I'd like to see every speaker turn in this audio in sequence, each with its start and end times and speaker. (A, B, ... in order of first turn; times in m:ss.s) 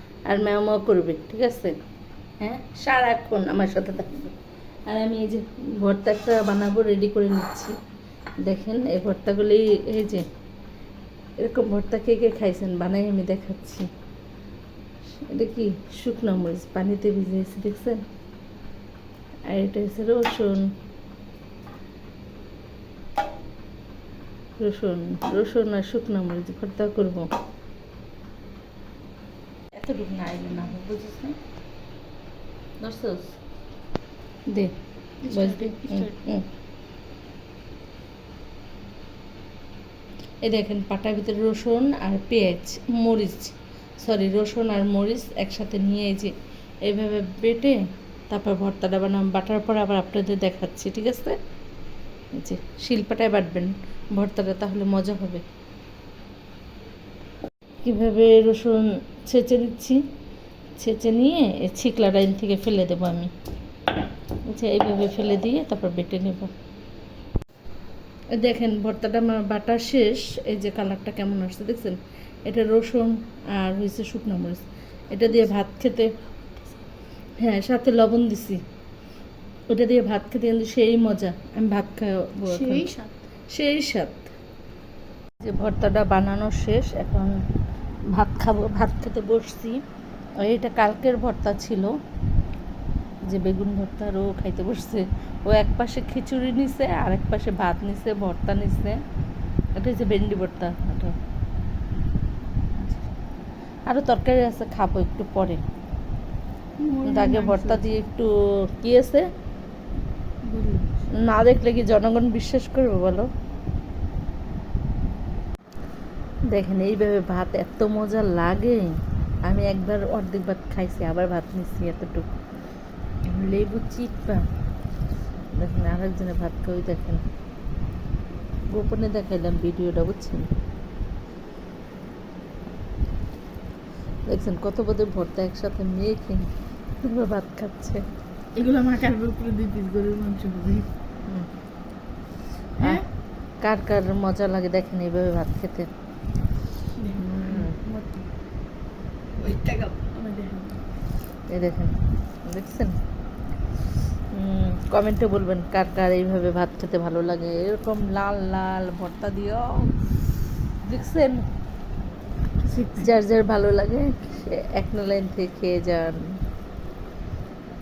0:00.3-0:01.7 A
0:02.4-0:04.4 A
0:04.9-0:07.7 A
0:08.4-0:10.3 A
0:11.4-0:13.9 A
0:15.2-0:18.0 A
0:19.5-0:20.7 A
0:24.6-0:27.3 A
0:29.8-0:31.4 A
0:32.8-0:33.4 A
0:35.2-0:36.2 B
0:35.2-0:36.5 A
0:40.4-0:46.3 A
0:46.8-0:47.8 A
0:48.3-0:51.4 A
0:52.3-0:55.4 A
0:57.8-1:00.0 A
1:00.8-1:03.3 A
1:04.5-1:06.5 A
1:08.3-1:16.1 A
1:17.4-1:18.6 A
1:19.7-1:22.9 A
1:22.5-1:23.2 B
1:23.5-1:24.3 A
1:25.4-1:27.3 A
1:28.1-1:29.8 A
1:30.4-1:31.9 A
1:33.3-1:39.0 A
1:39.8-1:41.1 A
1:43.9-1:45.6 A
1:46.8-1:47.9 B
1:47.0-1:49.3 A
1:50.4-1:51.1 B
1:51.1-1:53.3 A
1:56.5-2:02.3 A
2:03.2-2:04.4 A
2:05.5-2:07.2 A
2:08.7-2:10.5 A
2:14.3-2:16.5 A
2:17.0-2:18.0 A
2:18.5-2:20.9 B
2:22.8-2:23.0 A
2:22.8-2:23.0 B
2:23.6-2:25.9 A
2:27.0-2:28.3 B
2:27.3-2:27.8 A
2:29.4-2:30.8 B
2:31.5-2:33.0 A
2:34.3-2:40.1 A
2:40.8-2:41.4 A
2:42.6-2:43.1 B
2:43.0-2:46.4 A